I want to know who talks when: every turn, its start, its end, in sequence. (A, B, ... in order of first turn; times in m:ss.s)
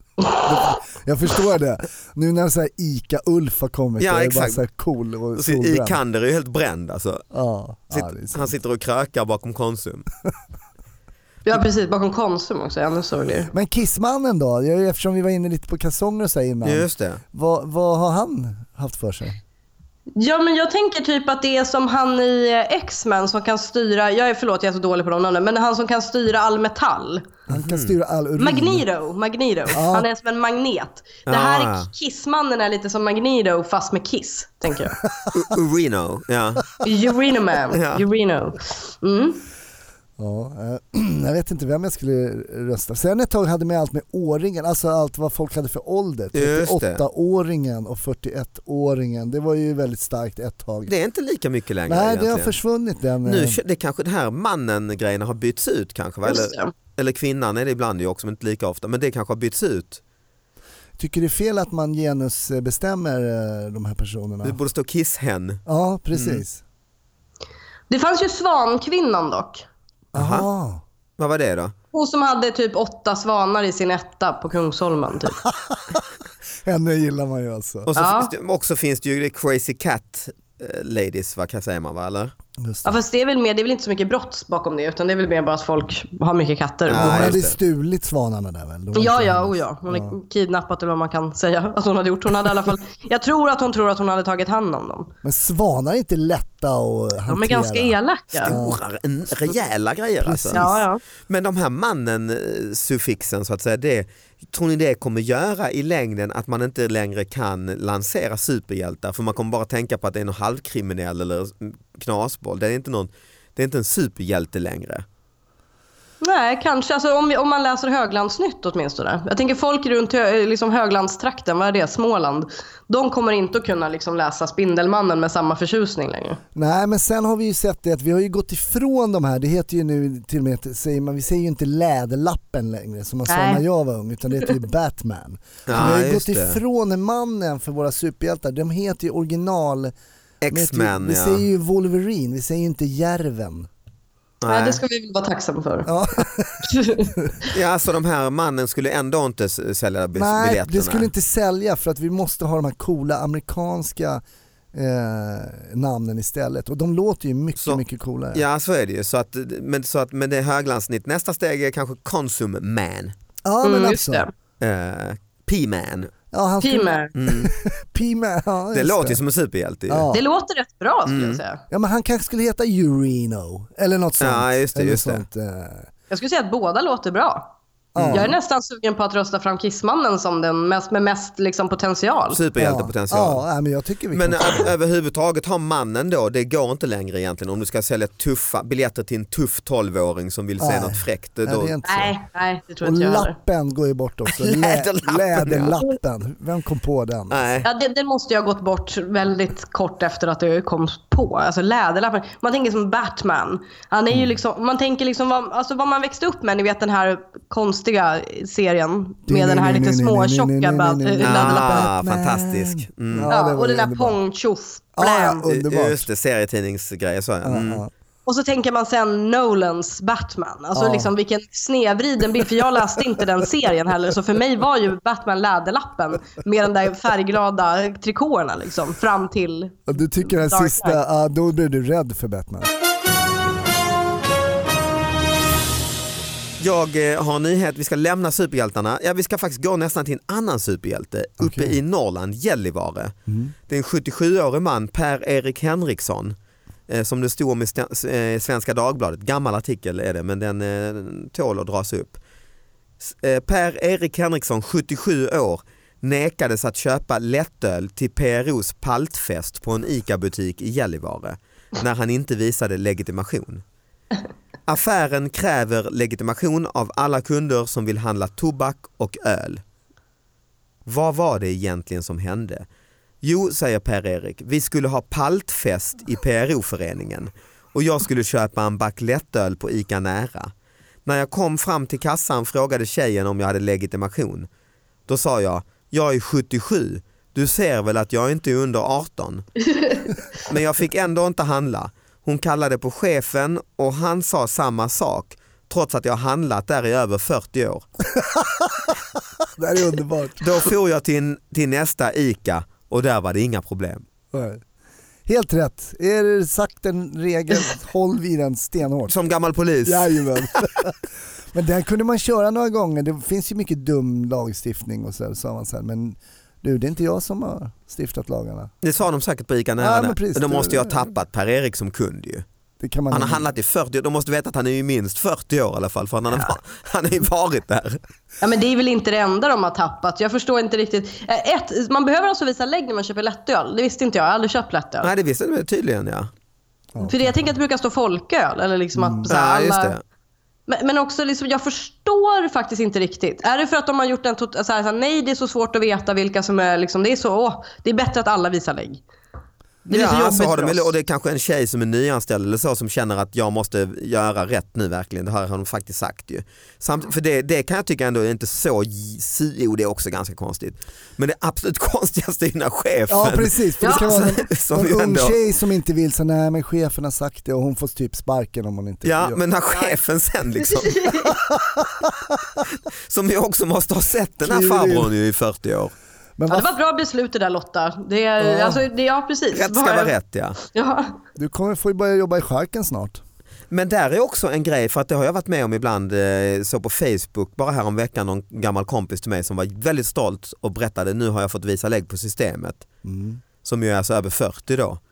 0:00.2-0:00.5 A
0:00.4-0:06.0 B
0:04.0-0:04.6 C
0:05.3-0:07.2 C
0:07.3-0:08.5 B
0:07.9-0:10.0 C
0:11.4-0:13.5 A
0:13.5-0:19.4 B
0:16.6-0:17.2 C
0:20.2-0:27.3 A
0:27.5-0:28.8 B
0:27.5-0:27.9 C
0:28.4-0:35.0 A
0:29.7-0:30.1 B
0:31.3-0:31.9 C
0:35.0-0:35.5 B
0:35.3-0:36.8 C
0:36.8-0:39.4 A
0:37.7-0:38.0 C
0:40.2-0:50.9 B
0:46.3-0:47.0 C
0:50.9-0:52.5 C
0:51.9-0:53.6 B
0:53.2-1:00.0 C
0:56.2-0:56.7 A
1:01.0-1:04.6 B
1:04.4-1:05.6 C
1:05.6-1:06.6 B
1:06.1-1:06.4 C
1:07.9-1:09.6 A
1:10.1-1:10.4 C
1:10.1-1:10.8 B
1:11.2-1:11.7 C
1:11.9-1:15.4 A
1:15.4-1:16.0 B
1:16.6-1:17.9 B
1:17.9-1:22.3 C
1:18.0-1:18.3 A
1:22.6-1:23.0 B
1:22.8-1:27.4 A
1:26.9-1:27.6 C
1:26.9-1:30.1 B
1:28.9-1:35.1 A
1:35.2-1:38.0 B
1:37.3-1:38.5 A
1:38.3-1:40.7 C
1:38.5-1:38.8 B
1:40.2-1:40.8 B
1:40.5-1:41.0 A
1:41.3-1:55.0 C
1:56.2-2:06.4 A
2:06.5-2:19.9 B
2:13.3-2:13.6 A
2:15.7-2:16.6 C
2:20.4-2:21.4 C
2:20.5-2:23.7 B
2:24.4-2:24.8 C
2:24.5-2:25.9 A
2:25.8-2:27.4 B
2:26.6-2:27.5 A
2:27.5-2:31.1 C
2:30.1-2:38.4 B
2:38.3-2:43.1 C
2:43.4-2:44.2 B
2:43.6-2:44.3 A
2:44.6-2:46.1 C
2:46.3-2:49.2 B
2:46.6-2:47.1 A
2:47.1-2:47.5 C
2:48.7-2:50.1 C
2:49.9-2:50.2 B
2:50.1-2:51.6 A
2:51.0-2:51.4 C
2:51.7-2:55.9 B
2:54.2-2:55.2 C
2:56.1-2:57.5 A
2:57.9-2:58.4 B
2:58.0-2:58.3 C
2:58.1-3:02.4 A
3:02.3-3:03.4 C
3:02.6-3:04.7 B
3:04.1-3:11.7 C
3:10.6-3:12.2 B
3:11.8-3:13.3 A
3:12.8-3:17.6 B
3:14.3-3:15.8 C
3:17.3-3:17.7 C
3:17.6-3:31.9 A
3:29.3-3:34.2 B
3:31.2-3:33.3 C
3:33.3-3:35.4 A
3:35.0-3:36.0 B
3:35.4-3:37.8 C
3:37.4-3:37.9 B
3:38.2-3:51.0 A
3:40.7-3:41.1 B
3:49.9-3:52.7 B
3:56.6-4:03.1 C
4:01.4-4:01.8 B
4:03.3-4:03.5 B
4:03.7-4:06.3 C
4:06.9-4:12.2 C
4:13.0-4:23.6 C
4:24.7-4:29.6 C
4:30.8-4:32.6 C
4:33.2-4:40.5 C
4:41.0-4:44.5 C
4:45.1-4:49.4 C
4:50.4-4:57.8 C
4:58.1-4:59.0 B
4:59.6-5:00.7 B
5:00.4-5:04.0 C
5:04.3-5:04.6 B
5:05.2-5:09.2 B
5:09.1-5:10.7 C
5:09.8-5:18.7 B
5:18.8-5:22.4 C
5:19.8-5:21.0 B
5:22.8-5:23.4 B
5:23.1-5:28.0 C
5:28.4-5:35.1 A
5:35.0-5:36.3 C
5:36.9-5:37.4 B
5:37.0-5:39.9 A
5:39.0-5:39.3 B
5:39.3-5:40.0 C
5:40.7-5:49.0 A
5:49.9-5:50.9 A
5:49.9-6:05.4 C
6:03.1-6:09.4 B
6:03.8-6:04.3 A
6:09.0-6:11.3 C
6:10.6-6:11.4 A
6:11.5-6:12.3 B
6:12.9-6:15.9 C
6:14.4-6:15.1 B
6:16.4-6:16.7 B
6:16.5-6:20.1 A
6:18.4-6:18.8 B
6:19.5-6:20.6 C
6:20.6-6:21.1 A
6:21.4-6:23.2 B
6:23.7-6:32.8 C
6:33.0-6:33.4 B
6:33.6-6:35.0 C